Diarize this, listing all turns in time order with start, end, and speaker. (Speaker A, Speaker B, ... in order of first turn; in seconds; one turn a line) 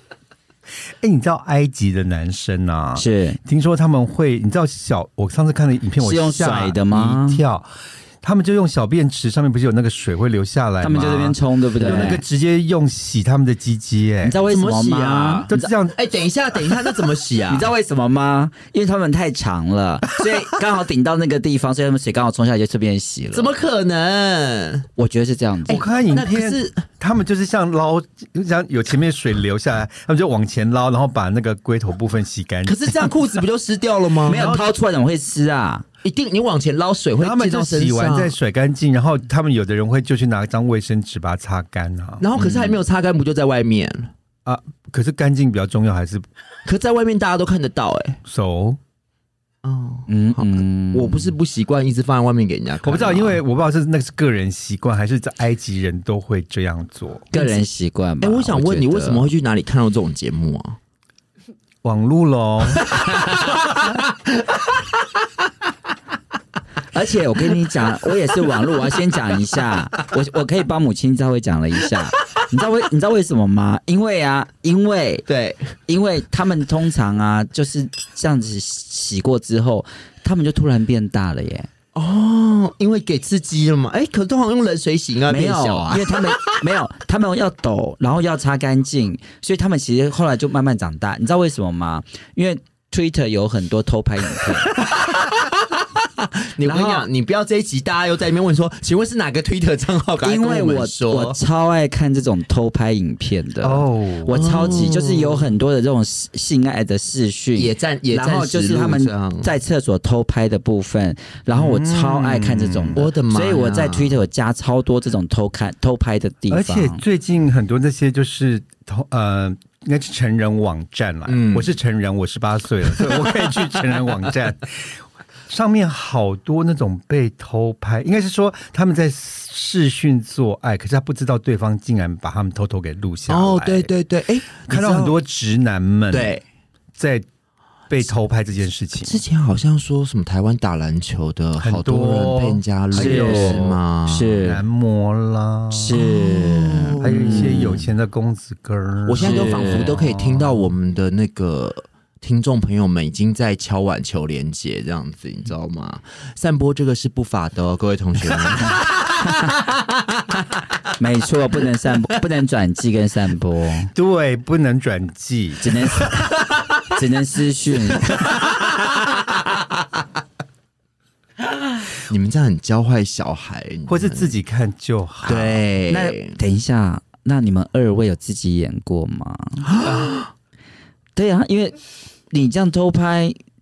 Speaker A: 1.0-7.7
Speaker B: 3.0-3.4
Speaker B: 6.0-7.4
Speaker A: 8.2-14.4
Speaker B: 10.8-12.2
Speaker C: 11.8-12.2
Speaker B: 14.2-15.7
Speaker C: 14.5-17.7
Speaker A: 15.5-16.0
Speaker B: 17.5-23.6
Speaker C: 23.3-24.9
Speaker B: 25.0-25.8
Speaker C: 25.7-26.8
Speaker A: 25.7-33.1
Speaker C: 32.6-34.6
Speaker B: 34.3-35.9
Speaker A: 34.3-34.7
Speaker C: 36.0-38.4
Speaker A: 37.2-42.3
Speaker C: 42.2-44.1
Speaker A: 44.5-46.3
Speaker C: 46.6-48.2
Speaker A: 48.3-48.8
Speaker C: 49.6-53.4
Speaker B: 50.1-51.3
Speaker A: 52.8-57.3
Speaker B: 57.3-59.3
Speaker C: 57.3-57.7
Speaker C: 58.2-60.8
Speaker A: 61.8-63.0
Speaker C: 62.7-65.1
Speaker B: 66.9-75.3
Speaker C: 75.3-75.8
Speaker B: 75.9-81.7
Speaker C: 81.9-86.6
Speaker B: 85.3-94.7
Speaker C: 94.8-101.4
Speaker B: 96.7-97.0
Speaker B: 100.2-117.0
Speaker A: 103.6-104.9
Speaker C: 104.3-105.5
Speaker C: 107.6-109.5
Speaker A: 111.5-113.0
Speaker C: 113.0-114.2
Speaker A: 116.5-133.9
Speaker C: 121.3-121.7
Speaker C: 133.3-135.2
Speaker A: 134.6-136.4
Speaker C: 136.1-136.4
Speaker A: 137.0-137.2
Speaker A: 137.9-139.2
Speaker C: 139.0-144.4
Speaker A: 141.6-143.8
Speaker B: 142.9-144.6
Speaker A: 144.4-146.0
Speaker B: 145.7-147.8
Speaker C: 145.9-147.9
Speaker A: 147.0-150.7
Speaker C: 149.1-160.4
Speaker B: 149.2-150.0
Speaker B: 161.0-163.9
Speaker A: 163.9-165.7
Speaker B: 165.6-166.2
Speaker C: 166.2-166.7
Speaker B: 166.8-168.2
Speaker C: 168.1-169.4
Speaker C: 172.1-174.3
Speaker A: 173.9-175.6
Speaker C: 175.2-176.3
Speaker B: 175.9-179.7
Speaker C: 179.7-180.3
Speaker A: 179.8-180.2
Speaker B: 181.2-181.8
Speaker B: 182.3-183.4